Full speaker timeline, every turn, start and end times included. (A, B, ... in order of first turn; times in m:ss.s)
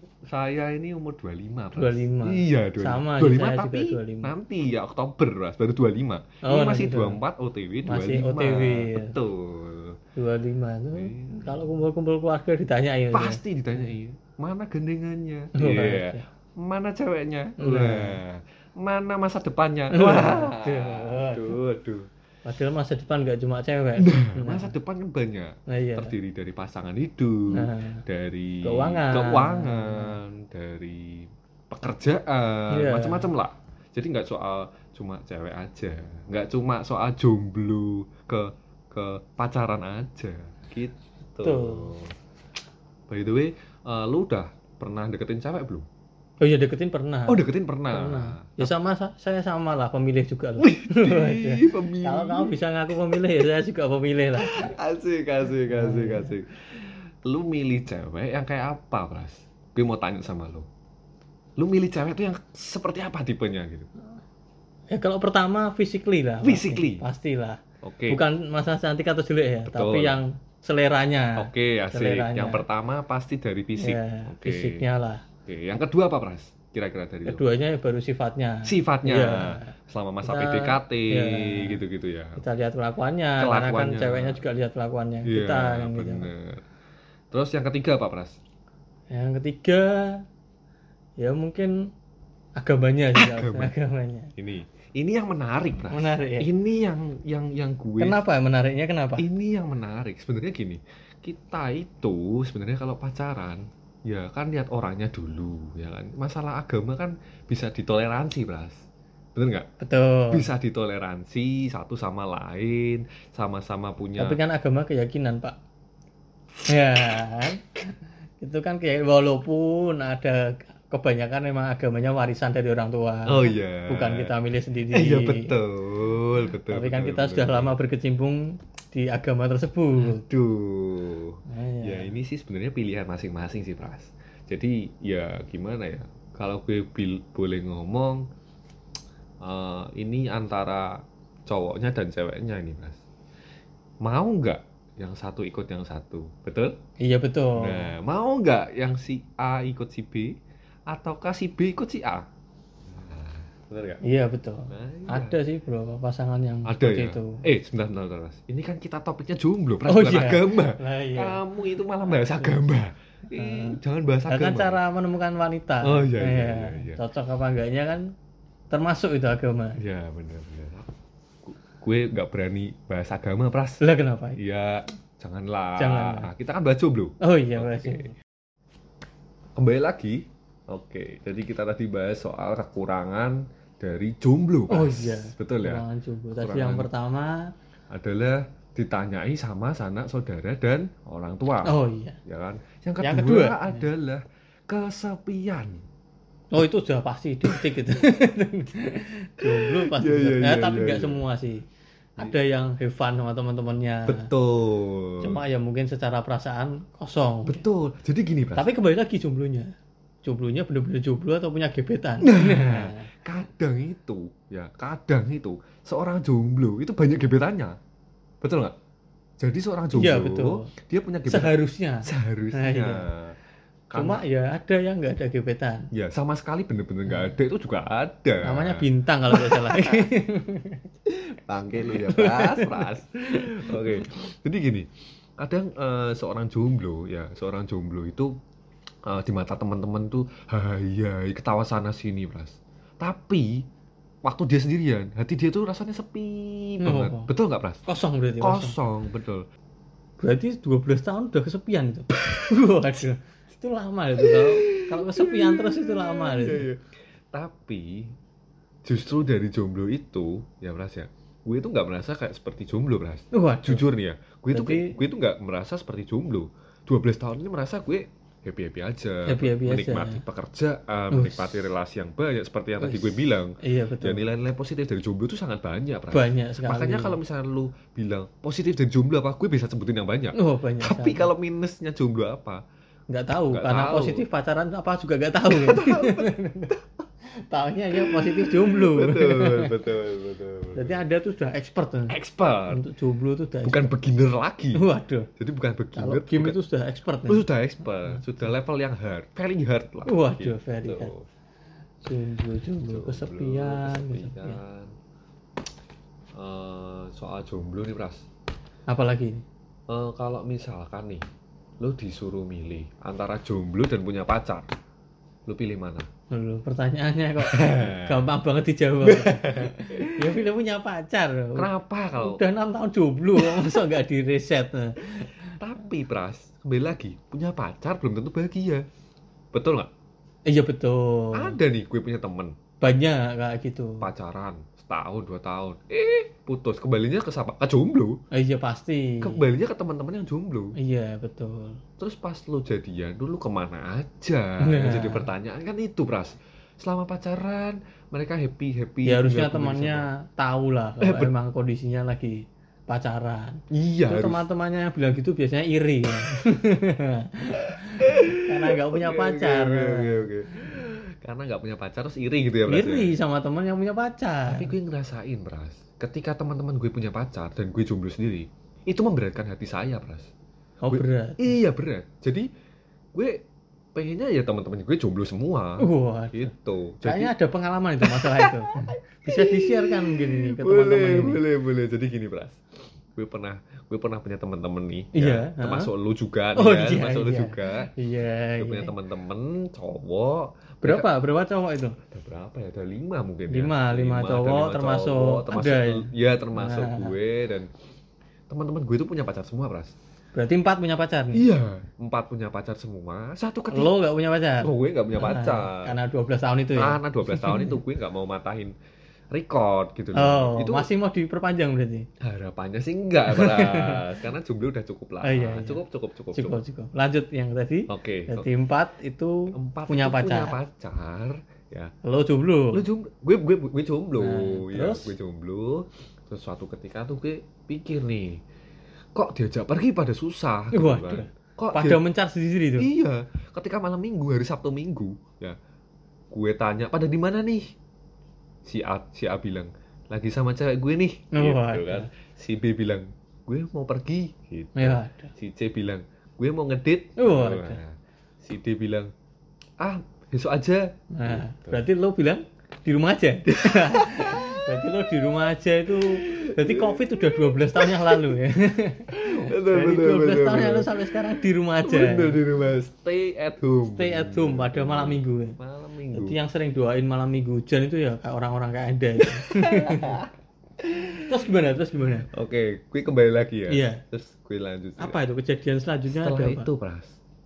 0:00.3-0:10.0 A
0:01.8-0:04.3 B
0:06.4-0:07.2 B
0:07.8-0:09.2 B
0:10.2-0:13.4 B
0:10.9-0:11.8 A
0:13.1-0:22.1 A
0:15.6-0:16.2 B
0:17.6-0:18.2 B
0:19.9-0:21.6 B
0:22.4-0:24.7 B
0:24.0-0:42.1 A
0:25.7-0:26.1 B
0:27.5-0:28.0 B
0:28.6-0:30.2 B
0:32.7-0:33.3 B
0:41.4-0:41.9 B
0:43.1-0:45.9 A
0:46.4-0:54.7 B
0:47.3-0:48.7 A
0:50.6-0:52.6 A
0:54.4-1:00.7 A
0:55.7-0:56.4 B
1:01.6-1:03.9 A
1:04.9-1:12.6 B
1:06.4-1:07.0 A
1:07.8-1:08.2 A
1:09.7-1:10.2 A
1:11.4-1:14.8 A
1:13.8-1:15.2 B
1:15.4-1:17.4 A
1:17.3-1:19.7 B
1:18.6-1:22.4 A
1:20.2-1:21.8 B
1:22.4-1:26.3 B
1:23.4-1:24.4 A
1:25.2-1:26.6 A
1:27.3-1:28.4 A
1:29.1-1:30.2 B
1:31.2-1:31.9 B
1:32.6-1:34.3 B
1:33.2-1:33.7 A
1:34.4-1:38.2 A
1:35.9-1:36.5 B
1:38.0-1:39.3 B
1:39.2-1:48.8 A
1:49.4-1:49.7 A
1:49.8-1:50.5 B
1:50.3-1:54.4 A
1:54.2-1:55.6 B
1:56.7-1:57.8 B
1:58.4-2:05.5 B
2:03.3-2:04.3 A
2:04.9-2:07.8 A
2:06.7-2:10.2 B
2:10.0-2:18.2 A
2:11.5-2:12.1 B
2:19.4-2:23.0 A
2:24.0-2:26.8 A
2:27.0-2:27.9 B
2:27.6-2:30.4 A
2:30.9-2:32.3 A
2:32.9-2:34.0 A
2:34.0-2:37.4 B
2:34.7-2:35.4 A
2:36.7-2:44.8 A
2:39.8-2:41.4 B
2:42.1-2:42.6 B
2:43.3-2:43.8 B
2:44.3-2:48.0 B
2:45.8-2:47.0 A
2:48.7-2:49.8 B
2:49.8-2:50.9 A
2:51.4-2:53.8 A
2:53.8-2:54.4 B
2:54.4-2:58.0 A
2:55.8-2:56.3 B
2:57.2-2:58.2 B
2:59.6-3:05.8 A
3:04.7-3:07.5 B
3:06.4-3:06.9 A
3:07.9-3:11.7 A
3:11.6-3:12.2 B
3:12.2-3:15.8 A
3:13.0-3:13.9 B
3:16.5-3:21.6 B
3:19.5-3:21.2 A
3:22.2-3:24.3 B
3:24.1-3:25.4 A
3:25.2-3:27.6 B
3:27.5-3:28.7 A
3:28.6-3:29.7 B
3:30.2-3:33.1 B
3:32.2-3:37.8 A
3:38.4-3:38.8 A
3:39.4-3:43.4 A
3:39.9-3:40.7 B
3:41.3-3:43.1 B
3:43.9-3:44.2 A
3:43.9-3:45.9 B
3:45.9-3:50.0 A
3:48.4-3:50.8 B
3:51.5-3:54.9 A
3:51.9-3:53.9 B
3:55.4-3:58.3 A
3:59.1-4:03.6 A
4:04.2-4:07.8 A
4:06.8-4:07.3 B
4:07.9-4:08.8 B
4:08.4-4:09.5 A
4:10.2-4:16.7 B
4:14.2-4:16.8 A
4:17.3-4:18.2 A
4:18.8-4:42.6 A
4:23.3-4:23.8 B
4:24.5-4:25.0 B
4:29.3-4:30.2 B
4:31.1-4:31.6 B
4:32.8-4:34.2 B
4:36.1-4:37.2 B
4:40.4-4:41.3 B
4:43.1-4:46.7 B
4:43.5-4:44.2 A
4:45.5-4:46.8 A
4:47.5-4:49.8 B
4:47.9-4:51.0 A
4:50.8-4:52.2 B
4:52.1-4:52.8 A
4:52.7-4:53.9 B
4:53.6-4:54.8 A
4:54.7-4:55.3 B
4:55.4-4:56.6 A
4:56.0-4:57.4 B
4:57.3-5:01.2 A
5:00.1-5:01.1 B
5:02.0-5:04.6 B
5:02.8-5:04.9 A
5:06.4-5:08.2 A
5:08.9-5:09.4 B
5:09.9-5:11.2 A
5:11.8-5:14.7 A
5:15.5-5:16.1 A
5:16.3-5:25.5 B
5:17.4-5:18.3 A
5:19.0-5:20.4 A
5:21.6-5:22.4 A
5:23.4-5:23.8 A
5:25.6-5:28.8 A
5:29.5-5:29.9 A
5:30.5-5:31.6 B
5:31.3-5:32.6 A
5:32.8-5:34.1 B
5:34.0-5:38.2 A
5:38.3-5:39.5 B
5:39.2-5:40.8 A
5:40.8-5:41.8 B
5:42.0-5:50.1 A
5:44.6-5:45.3 B
5:49.0-6:00.3 B
5:51.0-5:51.3 A
5:53.7-5:54.4 A
5:58.0-6:03.1 A
6:02.7-6:04.7 B
6:04.5-6:10.3 A
6:10.8-6:11.5 B
6:10.9-6:12.5 A
6:13.2-6:13.4 A
6:14.0-6:17.3 A
6:15.8-6:16.5 B
6:17.0-6:21.4 B
6:18.0-6:22.6 A
6:23.2-6:27.9 A
6:25.2-6:25.9 B
6:26.6-6:28.9 B
6:28.6-6:31.1 A
6:30.8-6:32.0 B
6:32.1-6:37.7 A
6:33.5-6:37.1 B
6:38.5-6:39.9 A
6:40.3-6:41.4 B
6:41.3-6:43.9 A
6:43.7-6:47.8 B
6:44.6-6:45.9 A
6:46.8-6:48.7 A
6:49.3-6:50.9 A
6:50.2-6:52.1 B
6:52.2-6:56.6 A
6:53.3-6:54.0 B
6:55.2-6:55.8 B
6:56.4-7:00.6 B
6:57.9-6:58.5 A
6:59.5-7:01.9 A
7:02.0-7:02.8 B
7:02.7-7:08.4 A
7:04.2-7:05.1 B
7:09.2-7:12.0 A
7:10.7-7:12.9 B
7:12.8-7:15.6 A
7:16.3-7:17.6 A
7:18.6-7:29.1 A
7:21.3-7:22.1 B
7:24.8-7:25.3 B
7:27.2-7:27.8 B
7:29.8-7:31.8 A
7:31.2-7:42.4 B
7:33.5-7:34.6 A
7:36.0-7:38.3 A
7:39.1-7:41.0 A
7:41.8-7:46.4 A
7:43.9-7:45.6 B
7:46.1-7:50.2 B
7:49.2-7:50.3 A
7:50.8-7:51.2 A
7:51.3-7:52.3 B
7:52.3-7:55.2 A
7:53.7-7:54.0 B
7:55.0-7:56.7 B
7:56.1-7:57.2 A